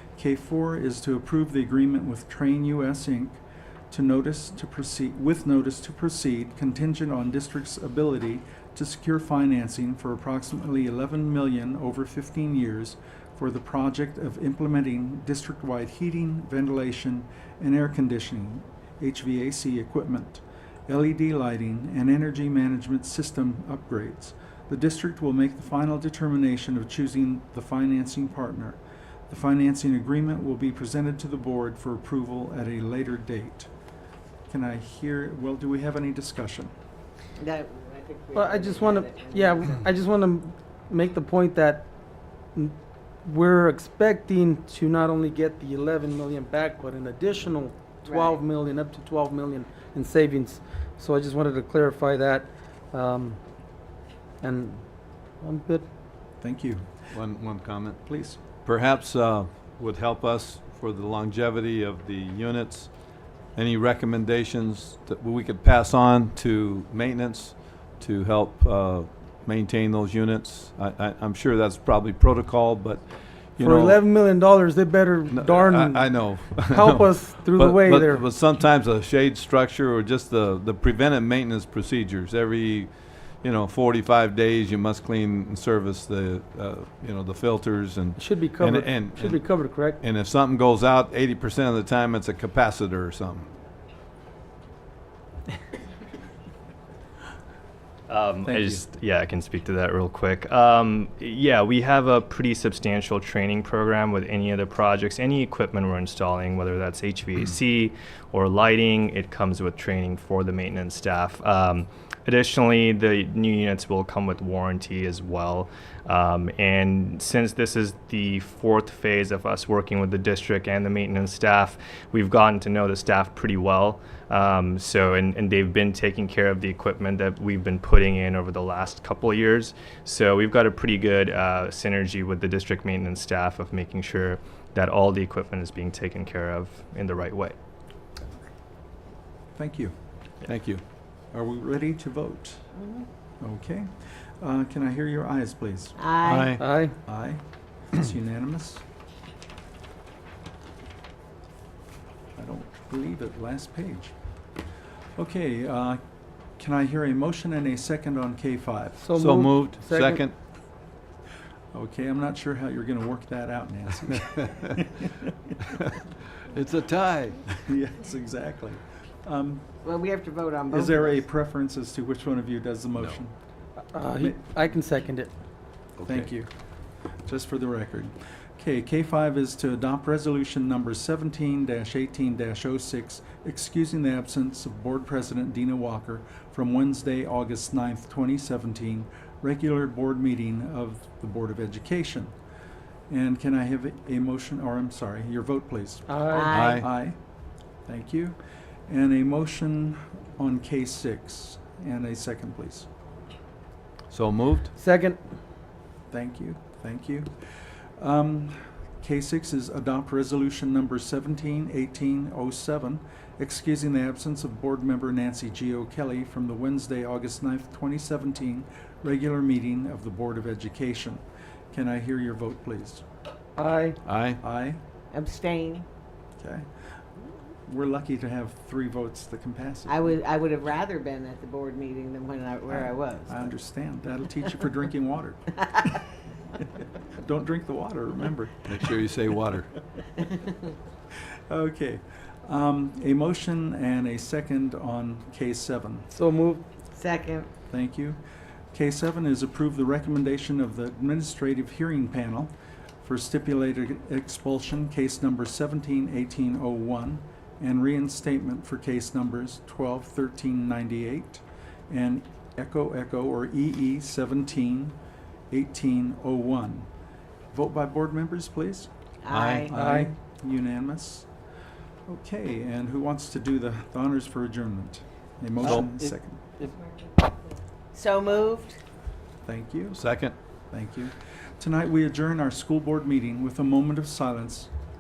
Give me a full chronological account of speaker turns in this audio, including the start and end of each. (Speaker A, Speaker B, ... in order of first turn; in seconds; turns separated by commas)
Speaker A: 0.2-3.4, Speaker A: 3.9-33.7, Speaker A: 34.5-36.7, Speaker B: 37.4-39.7, Speaker C: 38.4-41.9, Speaker C: 42.5-53.4, Speaker B: 48.0-48.4, Speaker C: 54.4-54.9, Speaker C: 55.4-55.9, Speaker A: 56.4-57.0, Speaker D: 57.1-58.0, Speaker A: 58.1-58.4, Speaker D: 58.6-62.9, Speaker D: 63.5-74.0, Speaker C: 73.6-78.2, Speaker D: 75.3-93.5, Speaker C: 88.2-90.0, Speaker E: 98.1-137.6, Speaker A: 98.4-98.8, Speaker A: 139.6-139.9, Speaker D: 140.5-140.8, Speaker A: 141.3-142.7, Speaker A: 143.4-146.0, Speaker B: 146.0-146.6, Speaker D: 146.2-146.6, Speaker C: 146.6-146.9, Speaker A: 147.1-147.4, Speaker A: 147.9-148.8, Speaker A: 152.4-154.1, Speaker A: 155.2-156.0, Speaker A: 156.6-159.0, Speaker C: 159.0-160.2, Speaker D: 159.2-160.3, Speaker A: 161.7-165.1, Speaker D: 166.5-167.4, Speaker A: 167.6-169.7, Speaker B: 169.8-171.2, Speaker A: 170.7-173.3, Speaker C: 173.9-175.3, Speaker A: 174.1-174.4, Speaker D: 176.0-176.3, Speaker A: 176.1-176.5, Speaker A: 177.3-192.3, Speaker A: 193.1-196.2, Speaker C: 196.1-196.6, Speaker B: 196.3-196.9, Speaker D: 196.5-196.9, Speaker A: 196.8-197.2, Speaker A: 197.9-198.4, Speaker A: 198.9-202.9, Speaker D: 204.1-204.7, Speaker C: 204.8-205.2, Speaker A: 206.1-223.0, Speaker C: 223.6-224.0, Speaker D: 224.1-224.4, Speaker A: 224.4-224.8, Speaker B: 225.1-225.9, Speaker A: 226.4-226.7, Speaker A: 227.7-230.1, Speaker B: 229.9-233.5, Speaker A: 232.7-235.7, Speaker A: 237.2-238.8, Speaker D: 238.7-239.7, Speaker A: 241.5-246.1, Speaker C: 246.1-246.7, Speaker B: 246.9-247.5, Speaker A: 247.7-248.2, Speaker A: 248.7-252.5, Speaker A: 253.0-265.0, Speaker A: 265.5-266.9, Speaker A: 267.5-268.9, Speaker B: 269.2-269.7, Speaker D: 269.3-269.7, Speaker A: 269.7-271.3, Speaker C: 269.7-270.1, Speaker A: 272.1-276.4, Speaker D: 275.6-276.1, Speaker B: 277.9-278.8, Speaker A: 279.5-280.0, Speaker D: 279.9-280.4, Speaker A: 280.7-284.7